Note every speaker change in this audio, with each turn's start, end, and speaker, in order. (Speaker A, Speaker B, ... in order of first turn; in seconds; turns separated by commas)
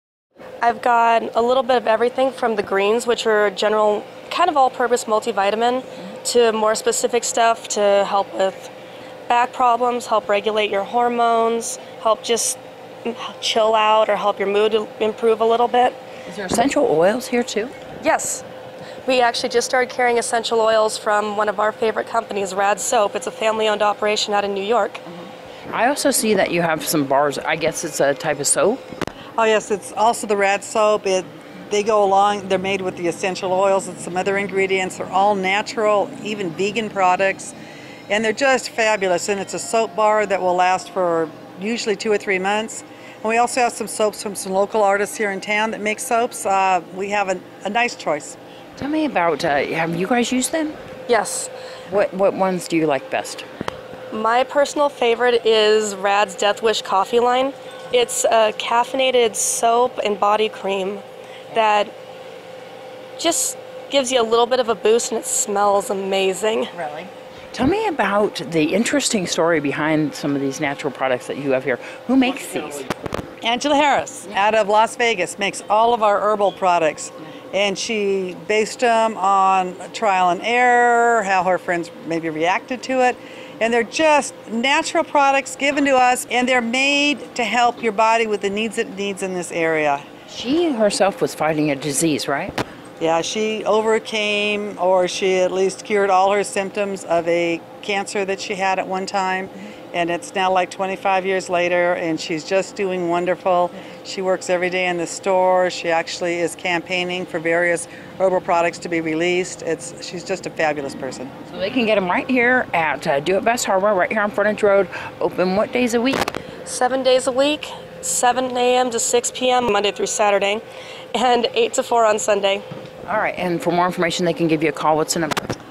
Speaker A: 0.6-8.7, Speaker A: 9.3-16.0, Speaker B: 16.3-17.7, Speaker A: 18.0-18.4, Speaker A: 19.0-25.0, Speaker B: 25.7-28.8, Speaker C: 29.4-37.5, Speaker C: 38.1-48.4, Speaker B: 48.8-50.8, Speaker A: 51.1-51.5, Speaker B: 51.9-53.5, Speaker A: 54.1-61.9, Speaker A: 63.2-66.7, Speaker B: 66.9-72.9, Speaker C: 73.4-90.0, Speaker B: 90.3-92.6, Speaker C: 93.0-111.3, Speaker B: 111.5-116.3, Speaker A: 116.6-120.6, Speaker A: 121.1-122.6, Speaker B: 123.0-125.5